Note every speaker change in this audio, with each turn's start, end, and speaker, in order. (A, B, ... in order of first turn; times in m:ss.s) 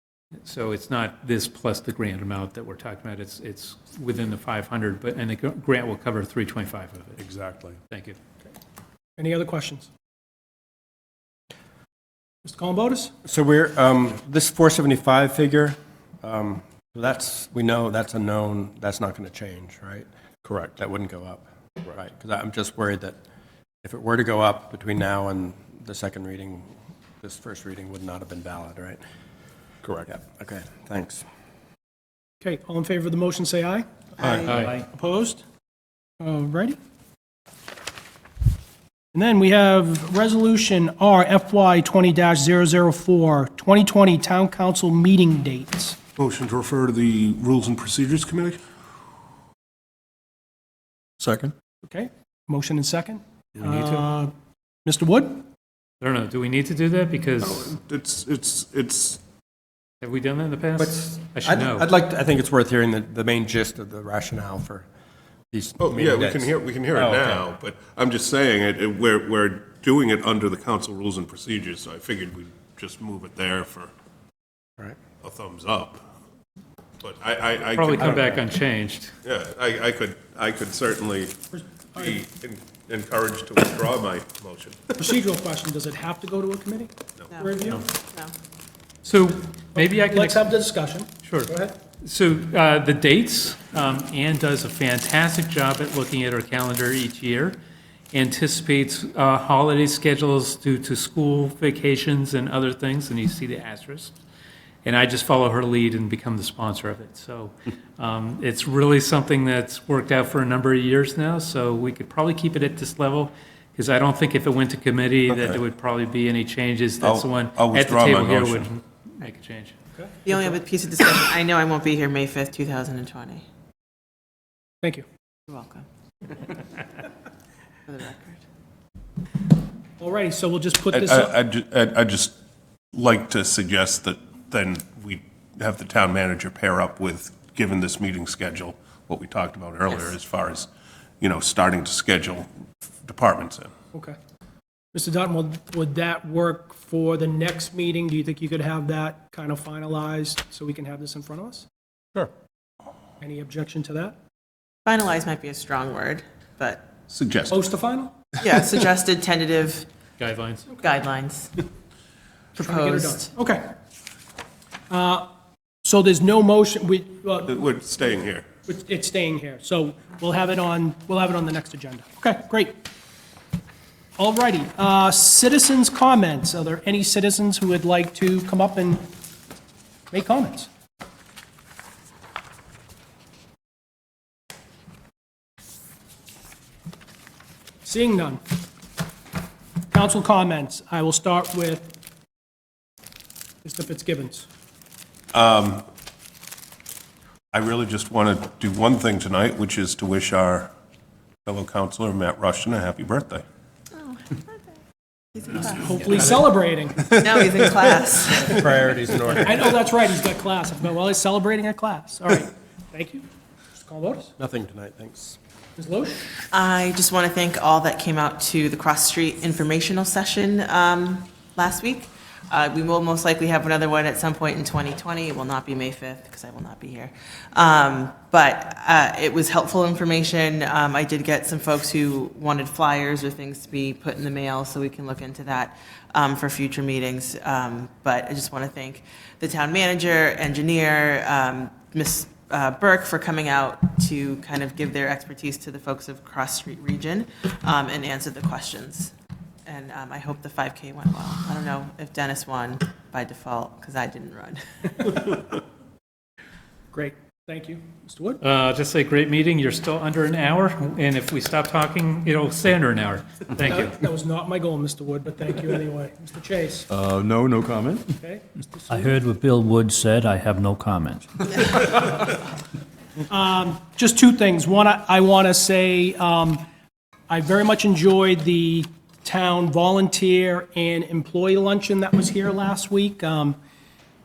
0:00.4-0:07.2 A
0:07.2-0:07.8 B
0:07.9-0:08.2 A
0:09.2-0:09.9 C
0:12.4-0:13.1 C
0:13.2-0:20.1 D
0:20.6-0:23.2 D
0:23.8-0:29.0 D
0:30.1-0:31.2 D
0:32.4-0:35.4 C
0:34.2-0:34.7 E
0:34.5-0:34.8 A
0:36.2-0:36.8 C
0:39.1-0:46.0 C
0:46.2-0:48.6 F
0:51.2-0:51.5 B
0:51.8-0:54.3 C
0:53.6-0:54.1 A
0:54.9-0:55.4 C
0:56.0-0:57.7 A
0:57.4-0:59.2 F
1:00.0-1:01.9 A
1:00.8-1:04.9 D
1:05.5-1:07.4 D
1:05.8-1:13.9 F
1:15.2-1:16.0 F
1:17.0-1:18.4 F
1:17.8-1:19.1 A
1:19.2-1:21.4 F
1:21.5-1:22.1 C
1:21.9-1:24.9 F
1:25.0-1:27.8 C
1:27.3-1:28.3 E
1:29.0-1:30.4 A
1:29.8-1:31.7 C
1:31.2-1:37.6 A
1:38.1-1:44.1 A
1:44.8-1:59.8 A
1:55.3-1:55.6 F
1:57.0-1:58.7 F
2:00.0-2:00.5 C
2:00.2-2:03.4 E
2:05.5-2:05.8 E
2:07.9-2:08.4 E
2:10.0-2:11.3 C
2:10.9-2:12.3 F
2:12.9-2:20.7 F
2:21.2-2:22.5 F
2:23.0-2:23.7 F
2:24.9-2:31.7 C
2:33.2-2:34.2 C
2:34.8-2:36.9 E
2:37.1-2:37.6 F
2:37.5-2:38.3 C
2:38.4-2:39.9 E
2:40.2-2:40.8 A
2:40.8-2:41.6 E
2:42.6-2:43.3 E
2:42.6-2:43.7 C
2:44.9-2:45.3 C
2:45.8-2:47.5 C
2:47.5-2:48.5 F
2:48.7-2:52.8 C
2:54.2-2:59.1 C
3:00.1-3:00.7 C
3:07.8-3:08.4 C
3:09.9-3:11.9 C
3:13.6-3:14.5 C
3:15.3-3:15.8 F
3:17.5-3:20.7 F
3:21.4-3:23.4 F
3:23.9-3:24.8 E
3:25.3-3:26.4 E
3:25.7-3:27.2 C
3:27.1-3:28.7 E
3:28.5-3:29.7 D
3:29.4-3:34.3 C
3:34.4-3:35.4 D
3:35.8-3:36.4 C
3:36.5-4:09.1 E
4:09.6-4:15.4 E
4:16.9-4:18.4 C
4:18.4-4:24.0 A
4:23.7-4:26.9 C
4:26.9-4:28.2 B
4:28.9-4:31.7 G
4:33.3-4:36.6 C
4:37.3-4:43.6 C